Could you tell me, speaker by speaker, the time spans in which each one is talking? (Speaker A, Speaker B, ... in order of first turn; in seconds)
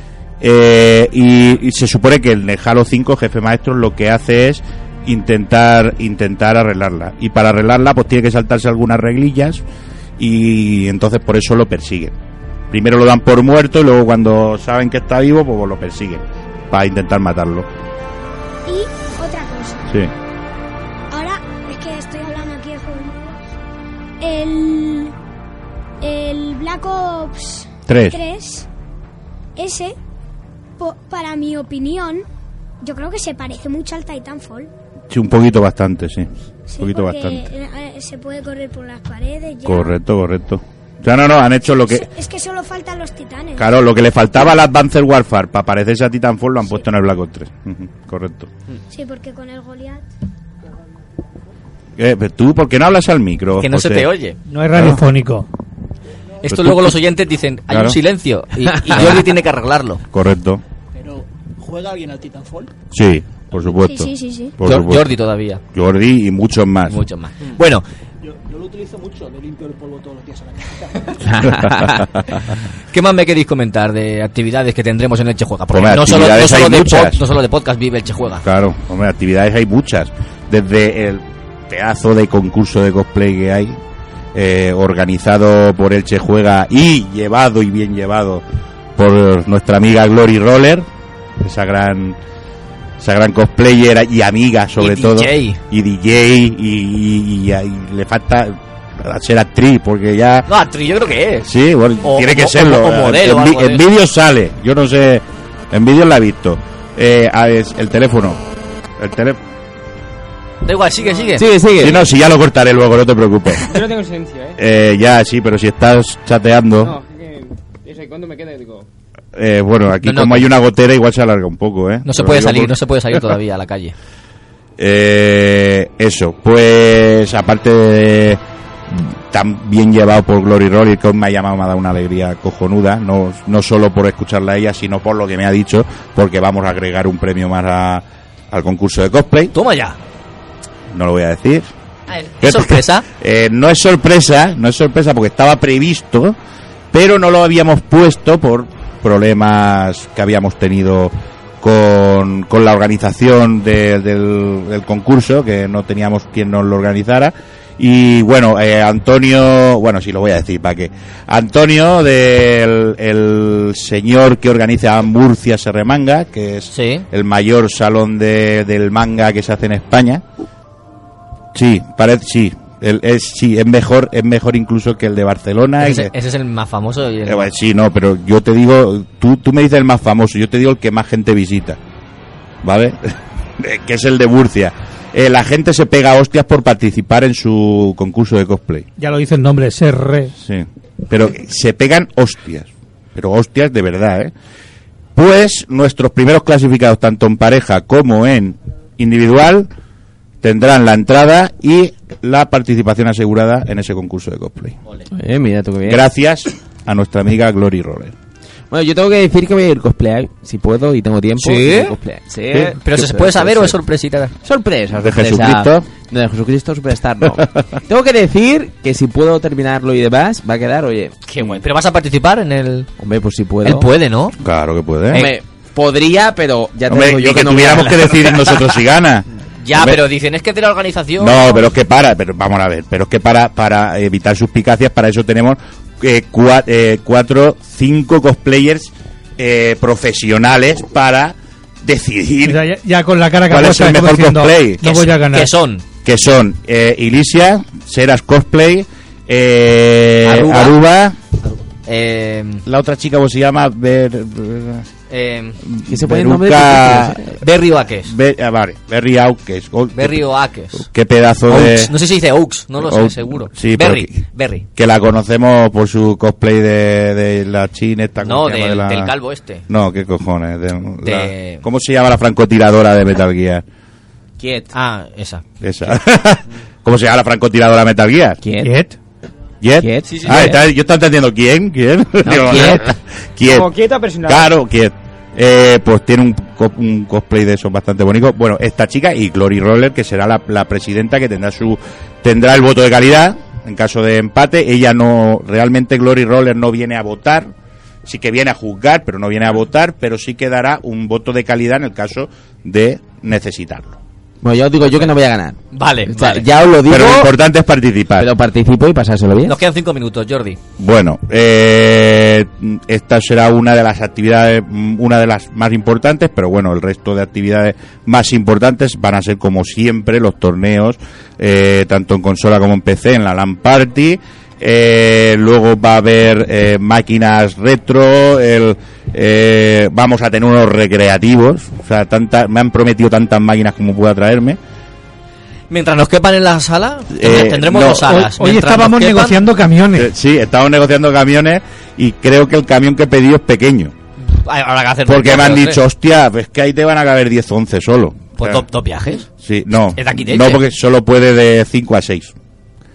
Speaker A: 0.4-9.6, 10.2-12.1, 12.7-17.7, 27.9-28.2, 35.1-37.5, 39.6-42.1, 43.6-48.5, 52.0-54.1, 54.8-55.0, 56.5-57.0, 57.7-58.0, 60.1-60.6, 62.9-65.1, 65.7-67.0, 71.6-72.0, 75.7-77.2, 78.4-83.8, 84.3-88.4, 89.0-90.9, 91.4-92.2, 93.0-100.5, 101.4-108.4, 109.0-109.4, 111.8-113.8, 114.6-116.9, 119.3-122.8, 124.8-128.4, 128.9-139.5, 140.9-141.7, 142.4-146.3, 146.9-170.2, 171.5-176.1, 177.2-181.8, 182.6-188.9, 190.4-194.3, 195.1-199.7, 200.4-204.8, 205.8-208.1, 215.0-215.9, 224.4-225.3, 226.9-230.0, 231.2-242.6, 243.5-244.8, 246.0-251.2, 252.7-254.9, 255.8-257.2, 258.0-261.9, 262.8-269.1, 269.7-273.6, 275.6-278.4, 279.6-283.7, 284.2-297.5, 298.0-303.9, 306.9-308.3, 310.8-334.6, 337.1-338.2, 339.9-343.9, 345.1-348.6, 349.4-352.3
Speaker B: 18.7-19.9, 21.1-23.4, 24.2-25.1, 26.0-28.7, 29.6-29.9, 30.8-32.2, 32.8-34.7, 36.7-40.0, 41.9-43.7, 48.9-50.0, 63.8-64.5
Speaker C: 53.6-54.4, 56.4-60.0, 64.6-65.6, 66.9-67.8, 72.9-78.4, 94.8-95.6, 100.5-101.5, 102.0-103.8, 110.6-111.5, 120.0-120.5, 122.0-123.9, 139.5-140.0, 142.1-143.0, 166.7-167.1, 175.8-177.5, 211.4-211.9, 212.8-214.3, 221.3-222.9, 223.6-224.3, 227.7-228.7, 229.6-231.7, 244.8-245.8, 250.2-250.8, 251.4-252.6, 255.1-255.6, 257.4-258.1, 259.9-260.9, 261.5-264.6, 268.2-269.6, 271.0-271.6, 274.7-275.4, 280.0-280.6, 282.2-282.8, 305.7-306.5, 309.4-310.6, 335.7-339.4, 344.2-345.8, 348.4-349.3, 350.0-350.6
Speaker D: 54.5-55.5, 189.0-190.3, 242.4-245.5, 278.6-278.9, 338.0-340.1
Speaker E: 60.9-62.7, 68.2-71.2
Speaker F: 71.3-72.0, 111.3-112.0, 205.1-206.0, 208.7-213.7, 214.4-221.2, 223.0-223.9, 225.1-228.1, 255.8-257.4, 274.4-274.7, 278.4-278.7, 279.8-280.6, 282.3-282.8, 304.4-307.3, 308.2-309.6
Speaker G: 113.6-114.6, 116.8-118.9, 283.4-284.5